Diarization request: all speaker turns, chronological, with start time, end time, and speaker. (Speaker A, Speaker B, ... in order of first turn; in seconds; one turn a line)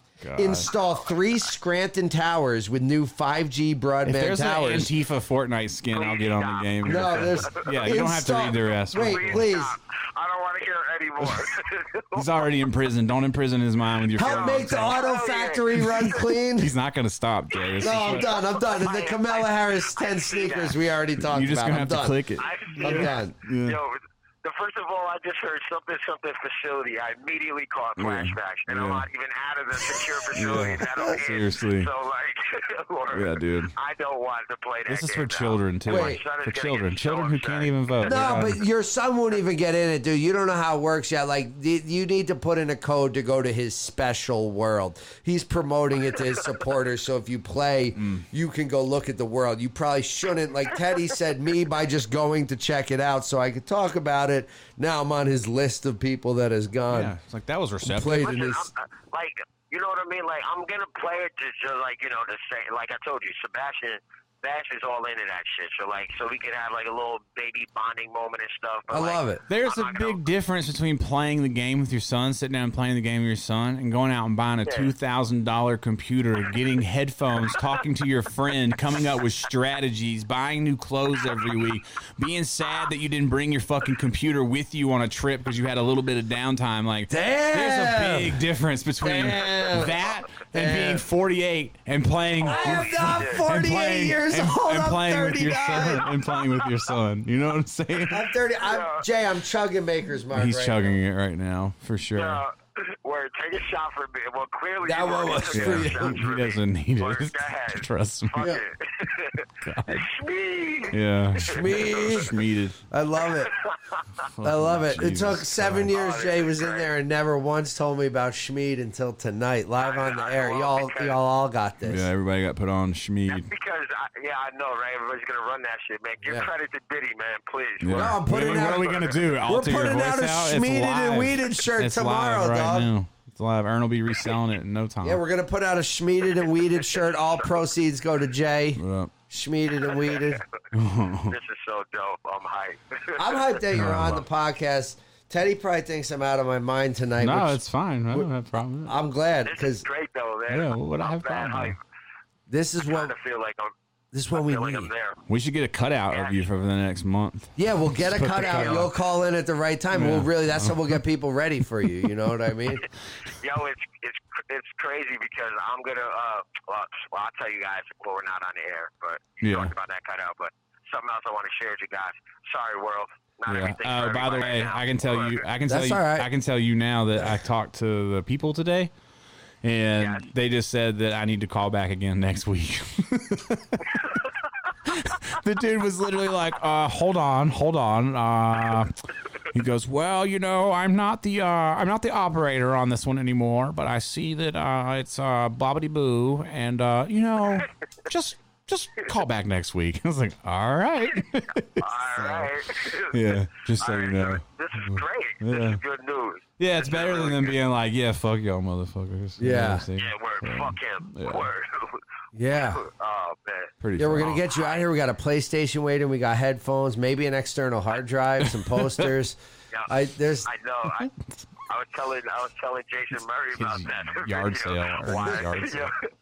Speaker A: 0.2-0.7
Speaker B: 0.4-4.9
Speaker A: 4.0-9.5
Speaker C: 5.9-7.5
Speaker B: 6.8-9.8
Speaker C: 8.9-12.3
Speaker A: 12.1-15.0
Speaker B: 14.2-16.7
Speaker C: 14.2-16.2
Speaker A: 15.8-18.3
Speaker C: 17.6-20.8
Speaker B: 17.8-23.3
Speaker A: 21.2-23.8
Speaker C: 22.4-38.4
Speaker A: 28.0-29.1
Speaker A: 30.3-31.9
Speaker A: 33.1-33.7
Speaker A: 34.9-38.6
Speaker B: 35.9-36.2
Speaker B: 38.0-57.1
Speaker A: 48.0-48.2
Speaker A: 56.9-58.3
Speaker B: 57.9-58.7
Speaker C: 58.2-70.2
Speaker B: 68.9-69.4
Speaker A: 69.5-98.2
Speaker C: 74.7-74.9
Speaker B: 87.1-88.4
Speaker B: 89.0-91.0
Speaker C: 92.4-93.5
Speaker B: 92.5-96.1
Speaker B: 98.1-101.0
Speaker C: 98.6-99.1
Speaker A: 100.3-102.4
Speaker C: 102.2-112.3
Speaker B: 104.8-106.2
Speaker A: 105.5-108.5
Speaker A: 109.6-110.1
Speaker A: 110.9-112.8
Speaker B: 111.4-112.4
Speaker B: 112.9-113.5
Speaker C: 113.3-114.0
Speaker A: 114.2-115.9
Speaker B: 114.4-122.1
Speaker C: 115.9-116.9
Speaker C: 119.8-121.2
Speaker A: 121.8-123.5
Speaker C: 123.3-129.3
Speaker A: 127.8-135.2
Speaker B: 127.9-132.9
Speaker B: 135.0-140.4
Speaker C: 136.8-137.5
Speaker A: 138.8-139.1
Speaker C: 139.9-140.4
Speaker A: 140.7-141.3
Speaker C: 141.3-143.6
Speaker B: 143.2-148.3
Speaker A: 143.7-144.2
Speaker A: 147.2-148.9
Speaker B: 148.9-149.8
Speaker C: 149.4-151.8
Speaker A: 150.5-151.8
Speaker B: 152.5-153.1
Speaker C: 152.9-153.7
Speaker B: 154.1-154.9
Speaker C: 154.3-155.2
Speaker A: 155.3-158.9
Speaker C: 156.1-156.4
Speaker B: 157.6-162.8
Speaker A: 159.9-161.0
Speaker C: 163.4-175.4
Speaker A: 169.4-169.7
Speaker A: 173.5-178.9
Speaker B: 175.7-176.3
Speaker A: 179.6-184.2
Speaker C: 180.0-180.3
Speaker A: 184.8-188.9
Speaker A: 189.5-205.8
Speaker C: 201.8-207.6
Speaker A: 206.6-211.5
Speaker B: 209.4-209.9
Speaker C: 210.0-212.0
Speaker B: 212.3-212.8
Speaker C: 212.6-213.7
Speaker A: 213.8-214.4
Speaker B: 214.0-219.4
Speaker C: 214.5-214.8
Speaker A: 218.4-219.1
Speaker B: 219.9-220.5
Speaker C: 220.4-221.1
Speaker A: 220.9-221.3
Speaker C: 221.7-226.0
Speaker A: 223.6-225.9